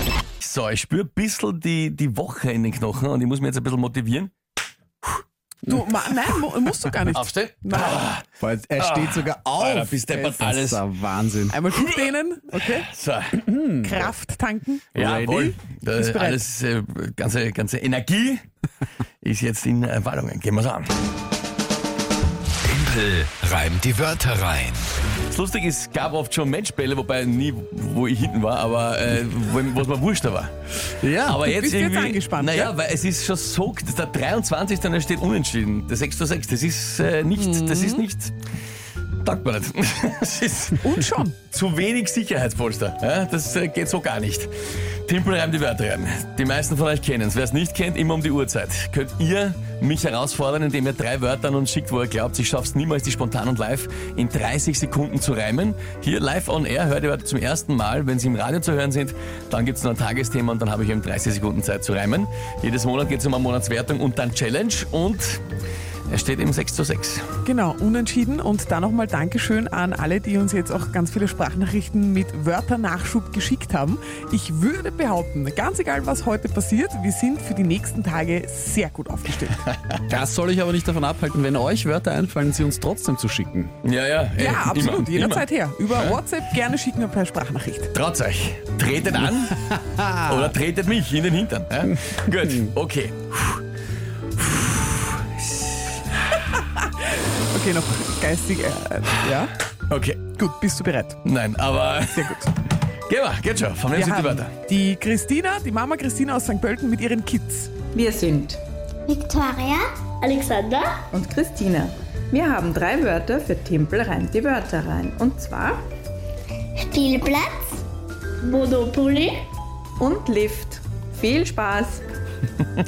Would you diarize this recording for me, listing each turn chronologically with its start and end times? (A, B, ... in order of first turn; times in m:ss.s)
0:00.4-0:04.3 A
0:05.6-0:08.0 B
0:07.1-0:08.2 A
0:08.4-0:11.6 C
0:08.8-0:10.8 A
0:11.5-0:12.9 B
0:11.7-0:13.4 A
0:13.4-0:14.0 C
0:13.7-0:14.9 B
0:14.9-0:18.4 A
0:14.9-0:15.6 C
0:15.9-0:16.4 B
0:19.2-0:20.9 A
0:22.7-0:24.8 D
0:25.3-0:38.3 A
0:31.0-0:31.4 C
0:31.4-0:32.7 B
0:37.4-0:38.0 B
0:39.2-0:44.5 A
0:40.8-0:41.3 B
0:45.1-1:05.4 A
1:06.1-1:07.2 A
1:07.4-1:19.6 B
1:20.1-1:23.7 C
1:23.8-1:26.2 A
1:24.3-1:27.9 B
1:27.9-1:29.7 A
1:29.6-1:30.5 C
1:30.2-1:33.6 A
1:31.9-1:32.7 C
1:34.4-1:35.8 A
1:36.5-1:39.5 B
1:39.9-1:40.2 A
1:40.3-1:41.2 B
1:41.2-1:42.4 A
1:42.2-1:42.5 B
1:43.1-1:44.5 A
1:43.9-1:47.7 B
1:47.9-1:48.6 E
1:49.1-1:51.0 F
1:51.1-1:55.8 E
1:56.8-1:57.7 F
1:58.4-1:59.4 F
2:00.0-2:02.0 E